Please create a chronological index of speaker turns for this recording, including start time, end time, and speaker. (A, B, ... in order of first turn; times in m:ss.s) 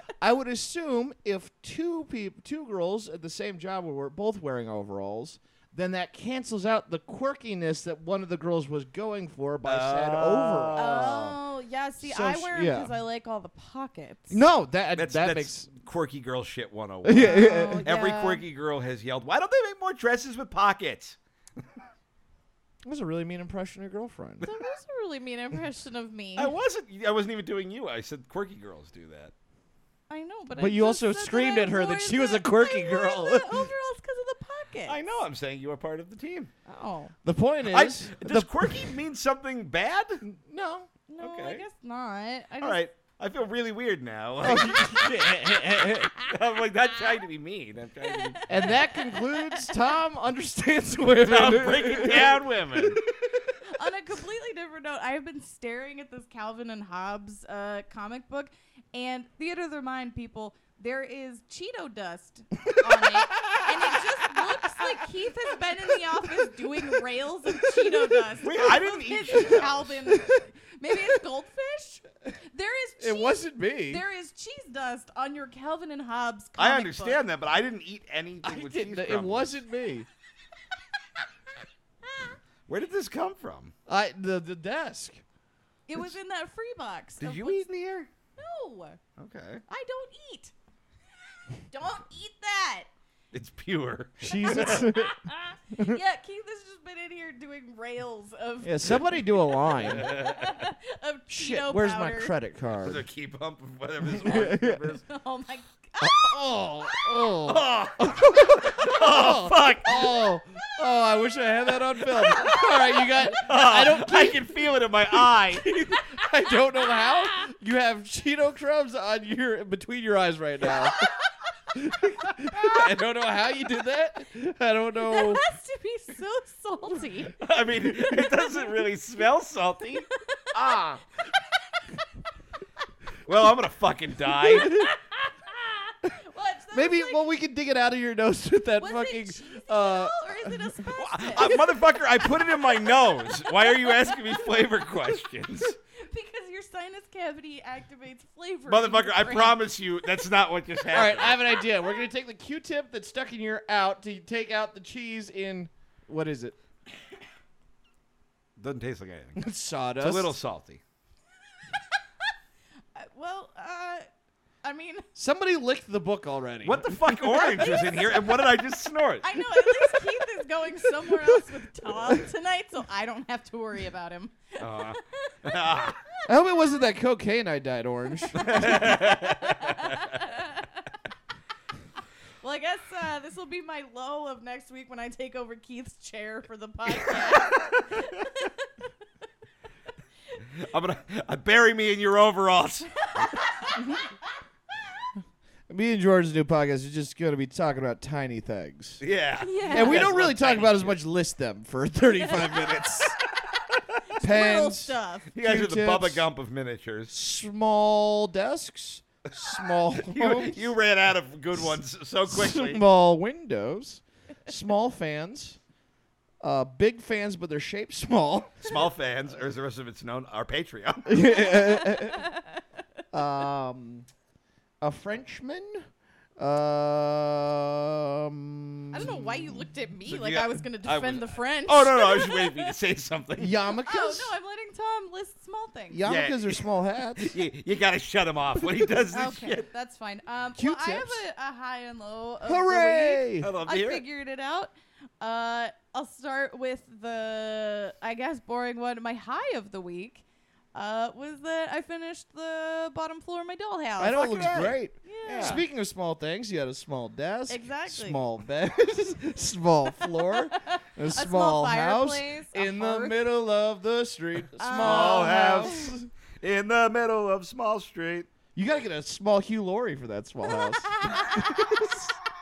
0:00.2-0:11.3 A
0:09.6-0:11.4 B
0:10.8-0:14.4 C
0:12.0-0:12.9 A
0:14.3-0:15.7 A
0:14.9-0:21.8 B
0:17.0-0:17.9 A
0:17.1-0:18.4 C
0:22.8-0:24.5 A
0:24.4-0:26.5 C
0:26.4-0:29.3 B
0:30.1-0:35.0 C
0:30.6-0:33.7 A
0:34.8-0:36.5 B
0:36.6-0:37.1 C
0:37.2-0:38.9 A
0:37.7-0:40.2 B
0:40.2-0:40.9 A
0:41.1-0:42.8 C
0:41.2-0:41.6 B
0:42.6-0:45.1 B
0:44.4-0:46.1 A
0:44.8-0:46.4 C
0:46.1-0:48.4 B
0:48.0-0:49.8 C
0:48.5-0:53.0 A
0:51.2-0:53.0 B
0:53.6-1:17.2 C
1:02.7-1:04.0 A
1:07.6-1:08.1 A
1:08.4-1:10.0 B
1:13.0-1:14.0 A
1:16.6-1:19.6 B
1:18.4-1:20.0 A
1:22.7-1:23.7 B
1:23.9-1:25.2 A
1:25.9-1:27.6 C
1:27.2-1:28.1 B
1:28.4-1:29.0 C
1:29.2-1:29.6 B
1:29.7-1:30.5 C
1:31.6-1:32.9 C
1:33.3-1:34.9 B
1:34.2-1:35.2 A
1:34.4-1:42.3 C
1:35.7-1:36.0 A
1:38.6-1:40.1 A
1:39.8-1:40.7 B
1:41.3-1:43.0 A
1:42.8-1:45.0 B
1:44.2-1:44.8 A
1:45.0-1:46.4 C
1:46.0-1:54.5 A
1:47.5-1:50.2 B
1:52.2-1:52.5 B
1:52.3-1:52.8 C
1:53.3-1:55.7 B
1:55.5-2:01.1 A
1:56.0-1:57.5 C
2:01.7-2:05.4 A
2:05.0-2:07.4 C
2:07.4-2:11.0 B
2:08.2-2:08.6 C
2:10.1-2:10.8 C
2:11.7-2:12.0 C
2:13.2-2:14.8 B
2:14.5-2:14.9 A
2:15.5-2:17.3 C
2:16.7-2:20.7 A
2:18.8-2:24.9 C
2:20.9-2:25.8 B
2:26.0-2:29.6 C
2:28.7-2:31.4 B
2:30.9-2:36.6 A
2:38.6-2:39.4 B
2:39.4-2:40.4 A
2:40.0-2:40.8 B
2:42.9-2:44.1 C
2:44.6-2:45.0 C
2:45.1-2:47.6 A
2:46.6-2:49.3 B
2:47.3-2:48.4 C
2:49.2-2:55.3 C
2:54.6-2:56.0 B
2:56.3-2:59.0 A
2:58.3-3:00.2 B
2:58.4-3:00.7 C
3:02.4-3:08.7 C
3:10.6-3:13.6 B
3:15.7-3:19.0 A
3:19.0-3:21.0 B
3:19.4-3:20.0 C
3:19.7-3:23.2 A
3:22.4-3:22.8 C
3:22.4-3:22.8 B
3:23.5-3:24.0 B
3:24.1-3:25.3 C
3:24.2-3:26.2 A
3:25.3-3:27.1 B
3:27.1-3:30.7 A
3:29.4-3:32.8 B
3:32.3-3:35.6 A
3:36.4-3:38.8 A
3:38.6-3:41.4 B
3:41.0-3:42.3 A
3:41.8-3:42.4 C
3:43.1-3:44.1 A
3:44.8-3:45.8 A
3:46.4-3:49.5 A
3:48.9-3:52.7 C
3:50.0-3:53.5 B
3:53.4-3:54.3 A
3:53.8-3:56.0 C
3:55.9-3:57.4 A
3:56.0-3:59.7 B
3:59.1-4:10.2 C
4:00.6-4:01.2 A
4:02.4-4:03.5 A
4:03.4-4:04.0 B
4:10.7-4:15.6 C
4:14.0-4:26.1 A
4:14.0-4:15.6 B
4:17.5-4:18.2 C
4:20.3-4:23.2 C
4:24.6-4:25.9 C
4:24.8-4:28.3 B
4:28.5-4:32.1 A
4:30.6-4:31.5 C